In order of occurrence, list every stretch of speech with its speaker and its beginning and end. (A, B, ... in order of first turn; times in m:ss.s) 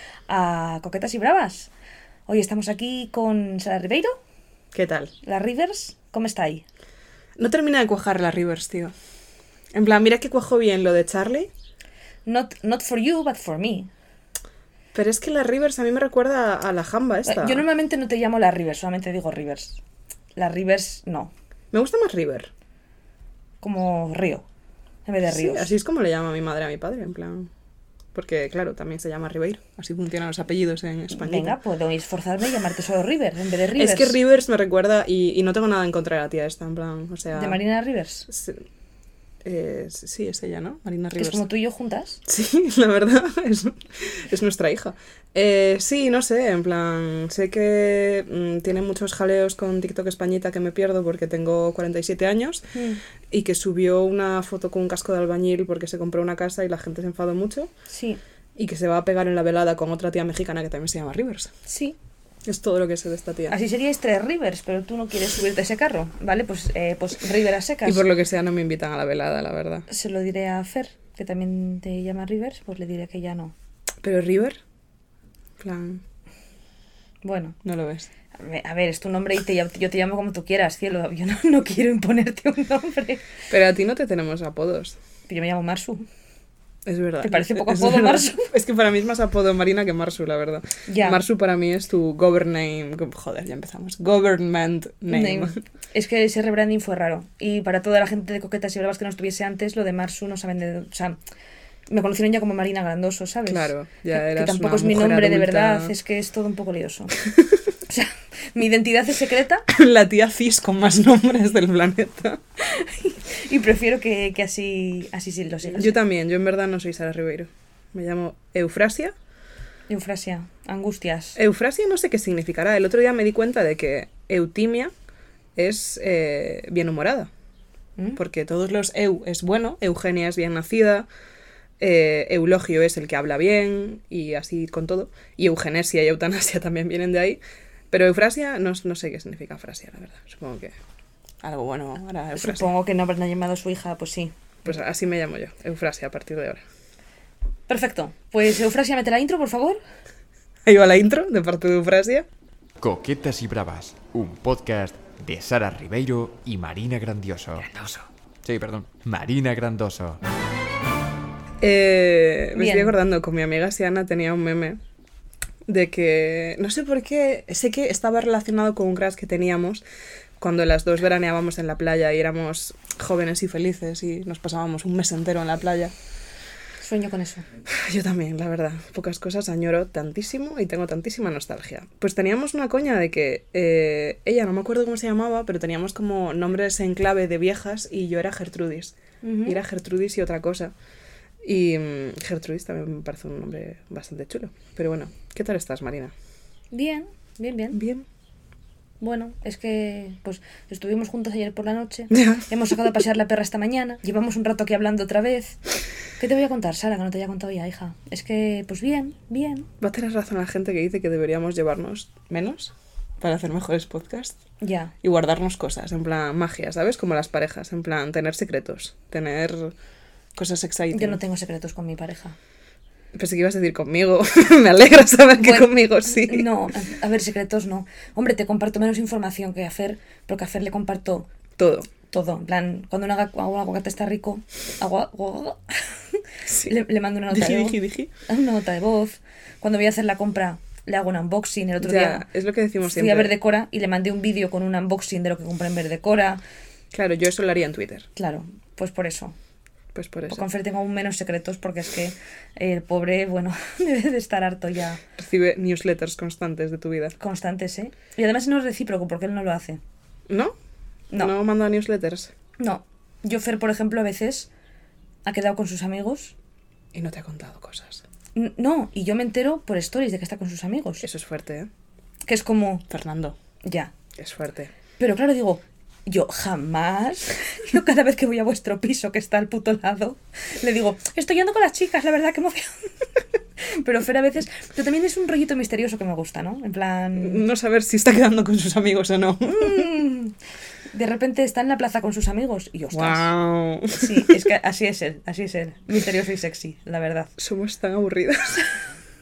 0:00.3-0:01.7 A
0:02.3-0:04.2 A
0:04.7-0:05.1 B
0:05.2-0:06.6 A
0:07.4-0:08.9 B
0:09.7-0:11.5 B
0:12.2-0:13.9 A
0:14.9-0:17.6 B
0:17.2-0:19.8 A
0:20.4-0:21.3 A
0:21.7-0:22.5 B
0:23.6-0:24.4 A
0:25.0-0:25.7 A
0:25.3-0:27.5 B
0:28.1-0:31.6 B
0:31.2-0:34.2 A
0:33.7-0:37.6 B
0:37.3-0:38.3 A
0:38.3-0:38.6 B
0:39.4-0:41.4 B
0:41.2-0:42.2 A
0:42.2-0:52.7 B
0:52.7-0:53.0 A
0:53.3-0:57.7 B
0:57.9-0:58.2 A
0:58.6-1:01.5 B
1:01.7-1:02.0 A
1:02.4-1:03.5 B
1:03.5-1:08.0 A
1:07.8-1:09.8 B
1:09.9-1:13.5 A
1:14.0-1:14.6 B
1:15.6-1:16.0 B
1:17.2-1:17.6 A
1:17.6-1:18.1 B
1:18.3-1:23.3 A
1:23.5-1:25.0 B
1:25.3-1:26.1 A
1:26.8-1:35.6 B
1:27.2-1:28.4 A
1:30.9-1:31.2 A
1:35.1-1:41.2 A
1:41.9-1:47.2 A
1:43.5-1:45.9 B
1:47.9-1:49.6 A
1:49.7-1:52.4 B
1:52.6-1:56.0 A
1:55.7-1:59.1 B
1:59.9-2:01.4 A
2:01.4-2:04.9 B
2:05.6-2:07.3 B
2:08.2-2:11.1 B
2:11.8-2:20.7 B
2:21.4-2:22.7 B
2:22.4-2:24.3 A
2:24.6-2:26.6 B
2:27.7-2:29.8 A
2:30.6-2:32.2 B
2:32.8-2:40.2 C
2:41.6-2:44.8 B
2:42.5-2:42.9 A
2:45.7-2:49.8 B
2:50.4-2:55.9 B
2:56.8-2:57.4 A
2:57.7-3:10.7 B
3:09.2-3:09.6 A
3:11.4-3:16.1 B
3:16.7-3:17.8 A
3:17.7-3:18.0 B
3:19.0-3:25.6 A
3:22.1-3:23.0 B
3:26.2-3:29.7 A
3:29.8-3:34.4 B
3:34.6-3:34.9 A
3:35.0-3:39.7 B
3:40.3-3:41.2 B
3:40.9-3:42.4 A
3:43.1-3:46.5 B
3:45.4-3:51.3 A
3:51.6-3:51.9 B
3:52.1-4:02.2 A
3:56.4-3:56.8 B
3:57.3-3:58.1 B
4:01.8-4:03.3 B
4:02.8-4:06.4 A
4:06.9-4:08.1 B
4:08.2-4:09.3 A
4:09.9-4:10.4 B
4:10.3-4:15.0 A
4:15.2-4:17.1 B
4:17.2-4:19.8 A
4:20.3-4:20.6 B
4:21.1-4:22.3 B
4:22.6-4:24.5 A
4:25.2-4:26.3 A
4:26.9-4:28.0 B
4:28.3-4:31.0 A
4:31.0-4:31.7 B
4:32.3-4:32.8 A
4:32.9-4:33.4 B
4:33.6-4:33.9 A
4:34.1-4:34.7 B
4:35.0-4:42.9 A
4:43.6-4:47.4 A
4:47.2-4:49.9 B
4:49.4-4:50.4 A
4:50.9-4:53.3 A
4:52.9-4:54.4 B
4:54.0-4:57.3 A
4:57.4-4:58.7 B